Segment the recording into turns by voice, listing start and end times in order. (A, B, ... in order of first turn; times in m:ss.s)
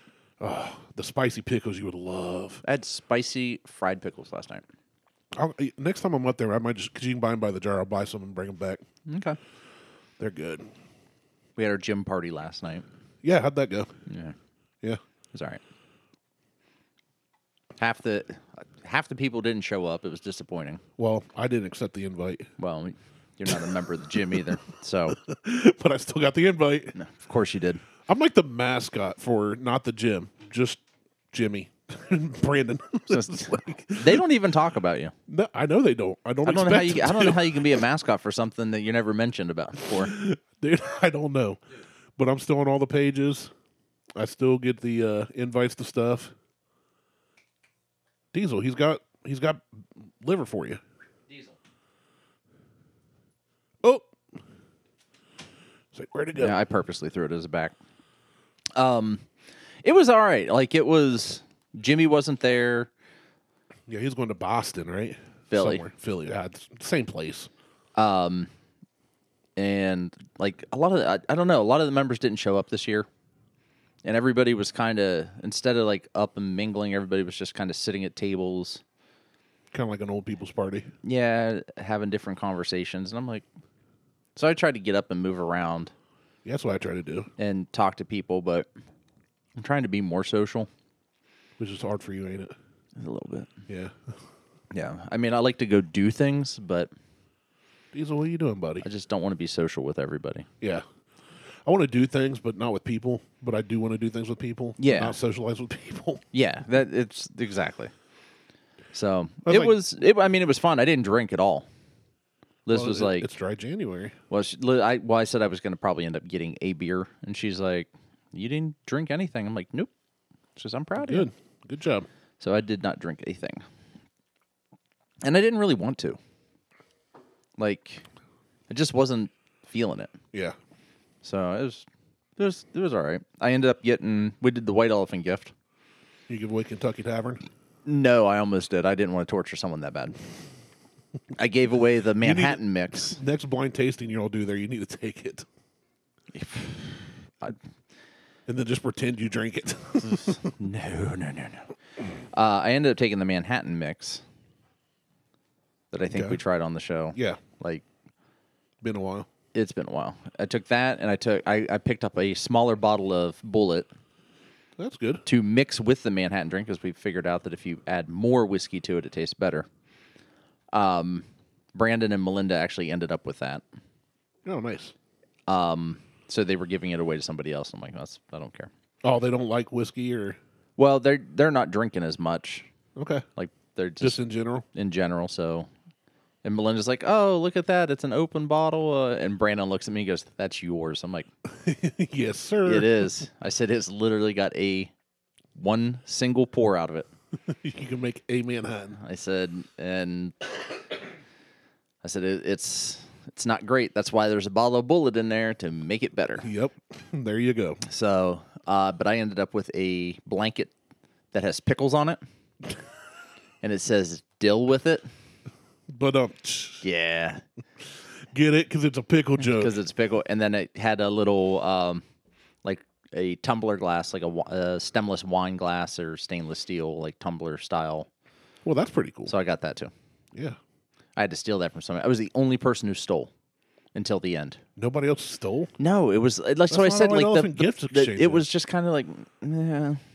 0:00.4-0:02.6 A
0:02.6-0:04.6 B
0:05.3-0:08.8 A
0:09.1-0:09.4 B
0:10.2-0:10.7 A
0:11.6-0:12.8 B
0:13.2-0:13.9 A
0:14.1-0:14.4 B
0:15.3-0:15.6 B
0:17.8-0:20.8 B
0:21.0-0:22.5 A
0:22.6-0:25.2 B
0:25.1-0:26.9 A
0:27.0-0:27.8 B
0:28.1-0:34.2 A
0:33.1-0:35.1 B
0:35.3-0:37.8 A
0:36.4-0:40.1 B
0:39.8-0:41.6 A
0:42.2-0:43.5 A
0:44.2-0:46.3 A
0:48.3-0:49.6 A
0:50.2-0:50.8 A
0:51.3-0:51.6 B
0:53.8-0:54.1 A
0:55.9-0:56.6 A
0:56.4-0:57.8 B
0:58.8-0:59.2 B
0:59.8-1:02.9 B
1:03.9-1:07.5 A
1:05.5-1:05.8 B
1:08.0-1:08.5 B
1:09.6-1:13.1 B
1:14.0-1:18.8 B
1:19.7-1:20.9 A
1:21.0-1:23.4 B
1:24.4-1:25.9 B
1:26.4-1:27.3 A
1:27.4-1:28.7 B
1:29.6-1:30.7 B
1:31.6-1:32.5 A
1:33.0-1:33.5 B
1:33.7-1:34.1 A
1:34.7-1:36.9 B
1:37.9-1:38.8 A
1:38.8-1:40.5 B
1:41.6-1:46.2 A
1:44.8-1:45.2 B
1:46.3-1:47.9 B
1:48.9-1:51.7 B
1:49.5-1:49.8 A
1:52.6-1:53.3 B
1:52.7-1:54.2 A
1:54.3-1:59.9 B
2:00.6-2:01.3 B
2:01.0-2:02.1 A
2:02.4-2:03.6 B
2:05.2-2:06.2 B
2:07.6-2:08.0 B
2:08.7-2:10.1 B
2:11.2-2:11.9 B
2:12.4-2:15.5 B
2:16.3-2:17.4 A
2:17.9-2:20.2 B
2:21.4-2:23.2 B
2:22.2-2:25.5 A
2:26.3-2:27.6 B
2:28.5-2:30.5 A
2:30.0-2:31.7 B
2:32.3-2:34.2 B
2:35.9-2:37.8 B
2:36.1-2:36.4 A
2:37.2-2:37.4 A
2:38.8-2:39.3 A
2:39.5-2:43.9 B
2:44.8-2:45.2 A
2:45.3-2:49.7 B
2:50.7-2:53.6 B
2:54.4-2:54.9 A
2:55.5-2:58.7 B
2:59.0-3:00.4 A
3:00.8-3:02.7 B
3:03.0-3:03.2 A
3:03.4-3:04.2 B
3:04.0-3:04.7 A
3:04.7-3:05.7 B
3:06.4-3:11.3 B
3:11.5-3:13.1 A
3:12.6-3:14.9 B
3:15.6-3:17.1 B
3:17.5-3:19.0 A
3:19.0-3:20.4 B
3:22.0-3:26.5 B
3:26.4-3:27.8 A
3:27.8-3:30.7 B
3:31.3-3:32.2 B
3:33.6-3:35.1 B
3:35.9-3:36.8 A
3:36.8-3:37.4 B
3:38.3-3:39.8 A
3:39.4-3:42.0 B
3:42.6-3:48.1 B
3:48.6-3:49.3 A
3:49.3-3:49.9 B
3:51.2-3:53.3 B
3:54.0-3:54.6 B
3:54.8-3:55.7 A
3:55.8-4:00.0 B
3:56.7-3:58.5 A